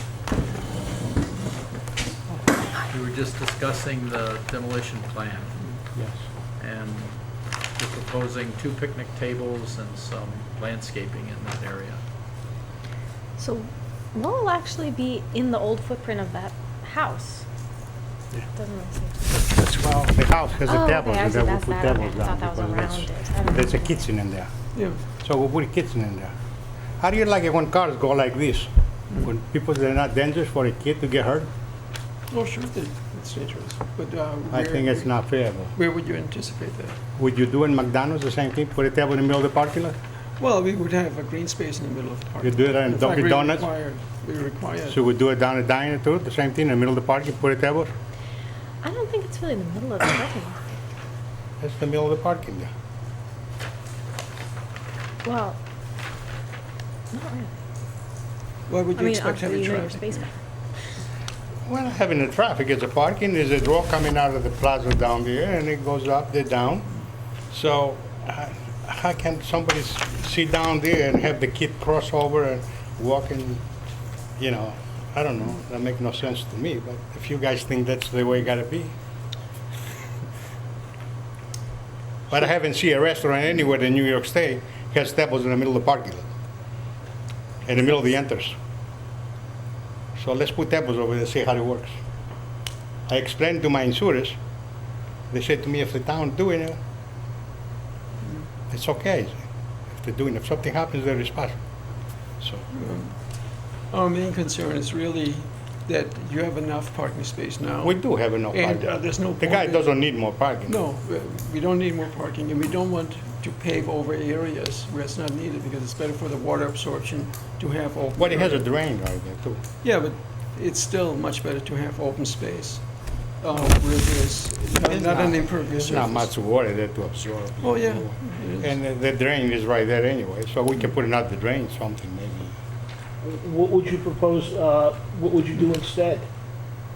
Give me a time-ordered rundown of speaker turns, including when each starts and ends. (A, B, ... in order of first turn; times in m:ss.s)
0:02.9-0:05.6 A
0:06.6-0:07.2 A
0:07.8-0:12.0 A
0:13.4-0:17.4 B
0:18.5-0:19.2 B
0:19.2-0:24.5 C
0:20.6-0:24.0 B
0:24.7-0:25.0 D
0:25.0-0:26.3 C
0:27.0-0:28.7 C
0:29.2-0:31.5 C
0:32.3-0:35.2 D
0:34.5-0:35.7 C
0:35.7-0:37.0 D
0:37.2-0:40.0 C
0:40.4-0:45.0 D
0:42.4-0:43.7 C
0:44.9-0:47.9 C
0:48.8-0:50.6 B
0:51.6-0:52.7 C
0:55.2-0:55.6 B
0:57.1-0:57.5 B
0:58.7-1:00.3 D
0:58.9-1:00.4 B
1:01.6-1:06.9 C
1:07.5-1:13.6 C
1:14.4-1:18.9 C
1:22.3-1:26.3 C
1:27.6-1:28.5 C
1:30.2-1:31.9 C
1:33.1-1:34.4 C
1:35.3-1:36.8 C
1:38.7-1:41.6 C
1:42.7-1:58.7 D
1:47.8-1:50.8 C
1:58.2-1:59.6 C
1:59.8-2:06.3 D
2:04.8-2:12.5 C
2:07.6-2:08.8 D
2:13.2-2:16.2 E